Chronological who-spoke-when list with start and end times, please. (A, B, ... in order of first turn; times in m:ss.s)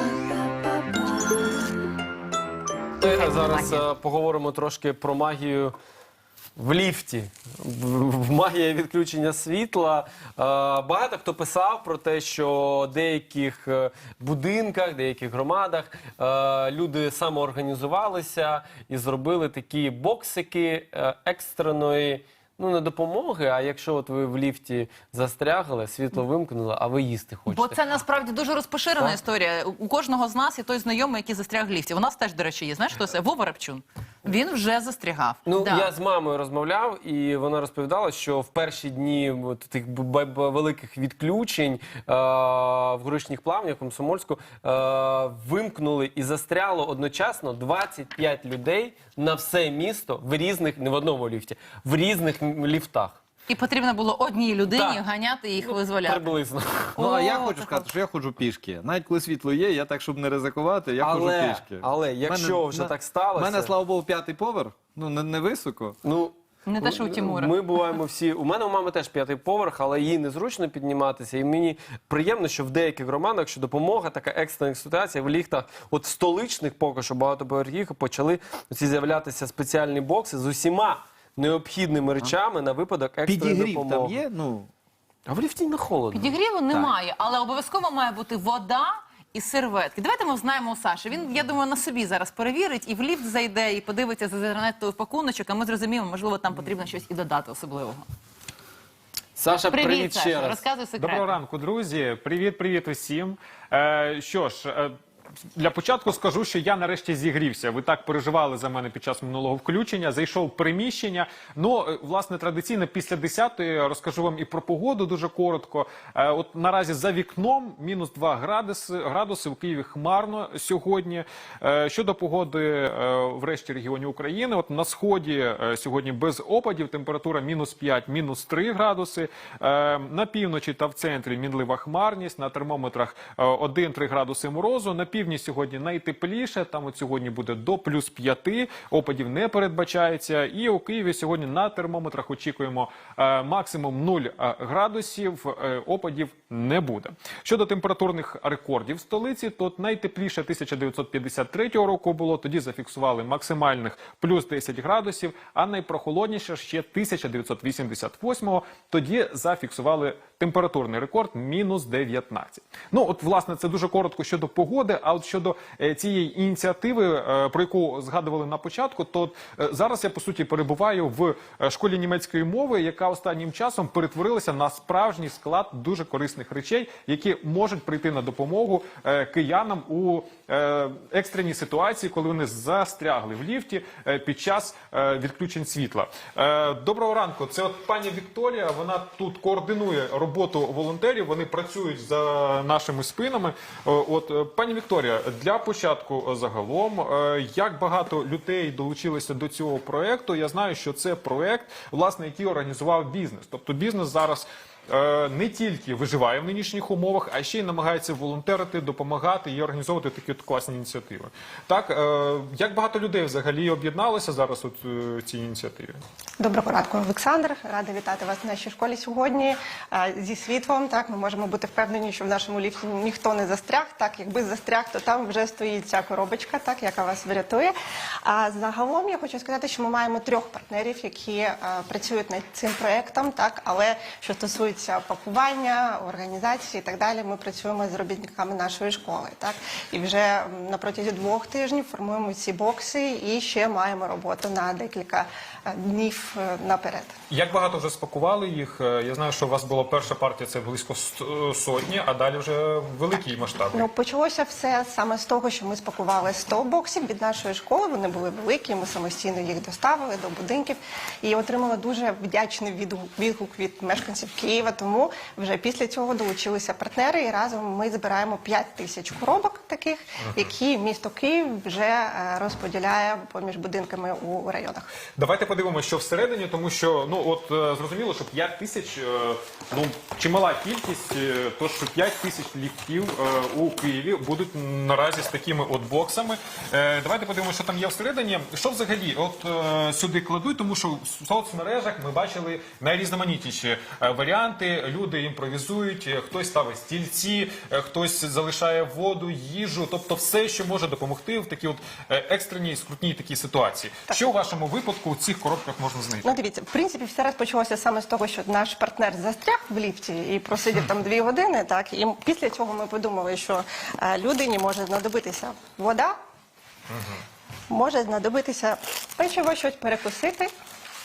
0:03.0-0:05.7 A
0:03.2-0:03.8 B
0:06.6-0:27.8 A
0:27.5-0:35.9 B
0:35.4-0:53.2 A
0:53.5-0:56.3 B
0:54.7-0:55.0 A
0:55.6-0:57.0 A
0:57.0-0:57.9 B
0:57.0-1:06.0 C
1:01.0-1:03.7 A
1:06.0-1:24.2 A
1:06.6-1:07.6 B
1:23.2-1:24.7 C
1:25.3-1:26.3 A
1:26.1-1:38.0 B
1:26.7-1:26.9 C
1:39.4-1:40.7 A
1:39.7-1:41.3 B
1:41.0-1:44.9 D
1:45.5-3:36.0 D
3:36.4-4:07.1 E
4:07.3-4:13.9 D
4:13.7-4:34.9 E
4:35.2-5:06.4 D
5:06.2-5:16.1 E
5:16.9-5:17.2 D
5:17.7-5:20.5 E